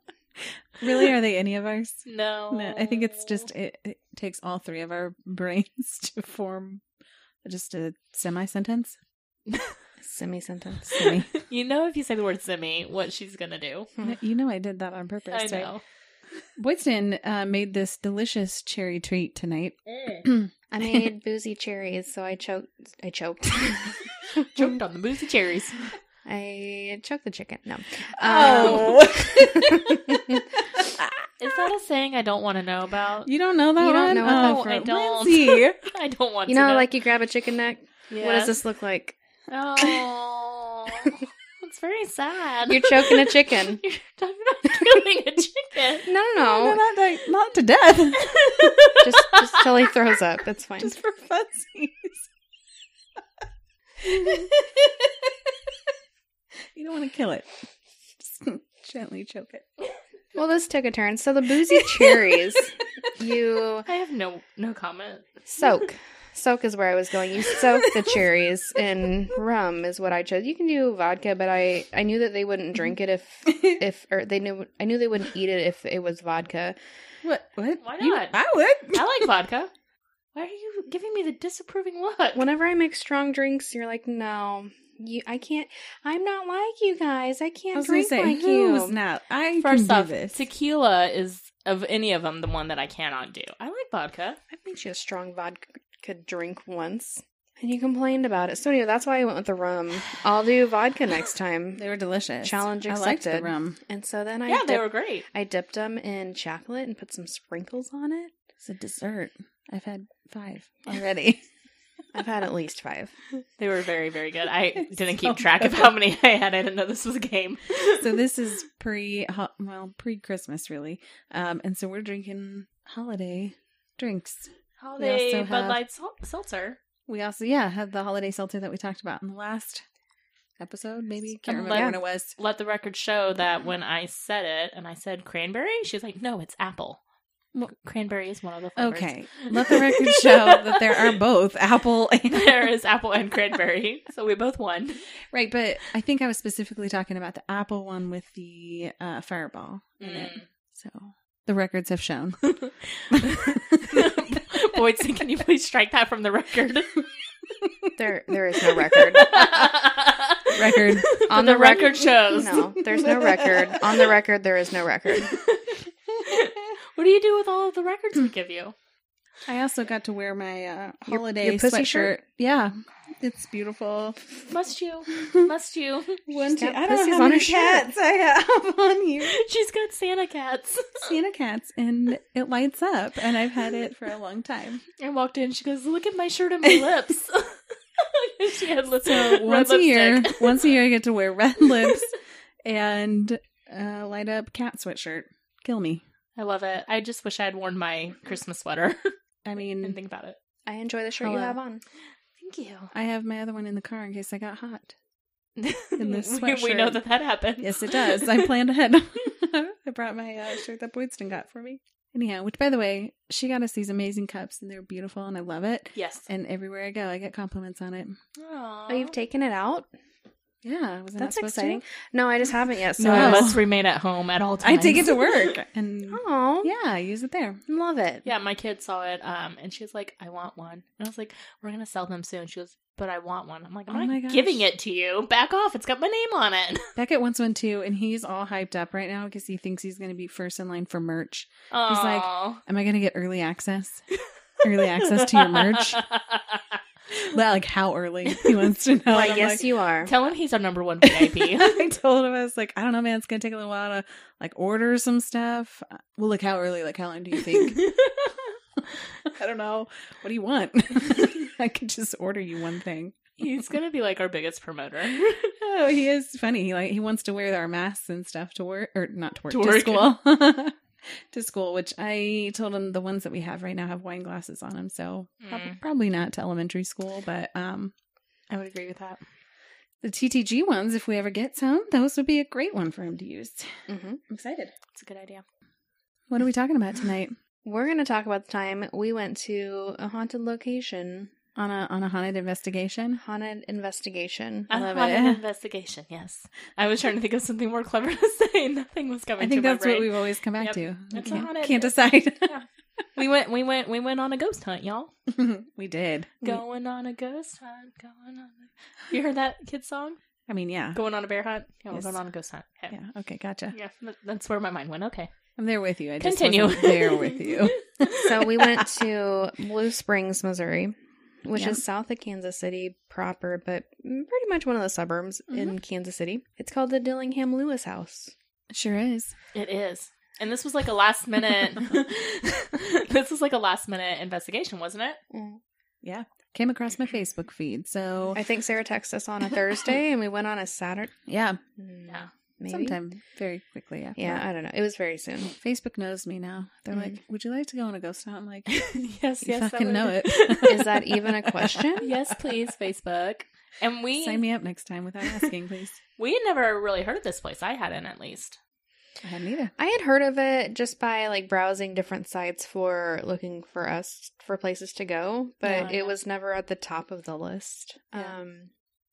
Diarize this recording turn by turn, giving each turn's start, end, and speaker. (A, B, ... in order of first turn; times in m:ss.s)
0:00.4-0:06.8 A
0:02.1-0:03.5 B
0:07.4-0:09.0 A
0:10.0-0:11.0 C
0:10.9-0:11.3 A
0:11.3-0:13.9 B
0:14.0-0:15.7 A
0:15.3-0:15.8 B
0:16.6-0:20.5 A
0:20.0-0:20.2 B
0:20.7-0:24.5 C
0:24.5-0:25.9 B
0:26.2-0:30.4 C
0:28.2-0:31.3 A
0:31.4-0:33.3 B
0:33.3-0:35.9 A
0:33.8-0:34.7 C
0:34.0-0:36.9 B
0:36.5-0:39.2 C
0:38.1-0:38.6 B
0:39.5-0:46.1 B
0:42.7-0:43.8 C
0:46.0-0:46.8 C
0:46.4-0:49.0 A
0:48.1-0:49.7 B
0:49.0-0:51.0 C
0:50.8-0:52.2 A
0:54.0-0:55.5 A
0:56.8-0:57.5 A
0:58.2-0:59.7 A
1:00.4-1:03.9 C
1:03.9-1:05.4 B
1:05.5-1:16.8 C
1:13.5-1:13.8 A
1:17.2-1:19.3 A
1:17.8-1:18.4 B
1:18.9-1:19.7 B
1:20.4-1:22.4 B
1:22.4-1:29.0 C
1:27.7-1:30.4 A
1:29.6-1:34.4 B
1:34.5-1:41.8 C
1:41.8-1:43.8 A
1:42.4-1:48.3 C
1:44.5-1:45.3 B
1:48.6-1:51.4 A
1:52.1-1:53.2 C
1:53.6-1:58.2 B
1:55.2-1:55.9 A
1:58.0-2:05.8 A
2:04.8-2:06.8 B
2:07.1-2:09.8 A
2:10.6-2:12.3 A
2:11.5-2:17.0 B
2:17.7-2:21.2 B
2:18.8-2:22.7 A
2:22.3-2:25.0 B
2:25.3-2:32.5 A
2:30.0-2:30.4 B
2:32.6-2:37.1 B
2:33.1-2:34.4 A
2:38.0-2:39.4 C
2:39.1-2:42.6 B
2:40.5-2:41.2 A
2:41.3-2:45.4 C
2:42.9-2:43.7 A
2:45.2-2:48.8 B
2:49.5-2:54.2 A
2:51.1-2:52.1 C
2:54.5-2:56.2 B
2:56.3-2:59.4 A
2:56.3-2:57.9 C
2:59.2-3:01.2 B
3:01.0-3:04.8 A
3:05.0-3:10.8 B
3:09.0-3:12.1 A
3:12.6-3:16.0 A
3:16.4-3:19.1 B
3:19.4-3:20.0 A
3:19.8-3:20.4 B
3:20.7-3:21.8 C
3:21.2-3:21.6 A
3:22.4-3:22.9 B
3:22.9-3:24.9 A
3:25.6-3:28.5 B
3:26.0-3:27.0 A
3:27.6-3:38.2 A
3:36.0-3:36.3 B
3:38.4-3:39.1 B
3:38.9-3:39.9 C
3:40.6-3:41.8 A
3:41.2-3:43.6 C
3:43.0-3:45.5 B
3:43.0-3:43.6 A
3:44.6-3:47.6 A
3:46.1-3:46.7 C
3:47.7-3:48.2 C
3:48.2-3:56.9 B
3:53.9-3:54.6 A
3:57.0-4:04.0 A
4:01.7-4:02.6 B
4:04.6-4:06.0 A
4:04.8-4:06.6 B
4:07.1-4:09.7 A
4:09.1-4:10.1 C
4:09.2-4:11.8 B
4:11.0-4:17.8 A
4:17.7-4:18.3 B
4:19.2-4:23.2 A
4:23.4-4:25.6 B
4:25.6-4:37.9 A
4:29.5-4:30.1 B
4:35.4-4:35.8 B
4:38.5-4:39.2 B
4:40.0-4:43.7 A
4:43.9-4:44.2 C
4:44.3-4:44.7 A
4:44.9-4:45.4 B
4:46.3-4:47.4 A
4:47.6-4:51.3 C
4:51.6-4:53.2 A
4:53.2-4:54.7 C
4:54.7-5:05.1 B
4:54.7-4:55.4 A
4:59.4-5:02.6 A
5:05.3-5:06.5 A
5:06.4-5:10.2 B
5:10.5-5:11.0 A
5:11.0-5:12.9 B
5:12.9-5:13.8 A
5:13.7-5:15.3 B
5:15.6-5:18.8 A
5:16.2-5:18.5 B
5:18.2-5:28.3 C
5:21.6-5:21.8 A
5:25.5-5:25.8 A
5:28.7-5:29.4 A
5:29.5-5:35.2 B
5:35.3-5:35.6 C
5:36.0-5:38.4 A
5:38.3-5:41.1 C
5:41.3-5:41.6 A
5:41.8-5:43.0 C
5:42.7-5:44.4 A
5:44.2-5:45.5 C
5:45.5-5:48.9 A
5:48.7-5:51.1 B
5:49.4-5:51.0 A
5:50.6-5:52.1 C
5:52.0-5:54.4 B
5:54.2-5:56.0 A
5:56.2-5:58.6 B
5:59.2-5:59.7 A
5:59.8-6:08.7 C
6:05.6-6:06.1 B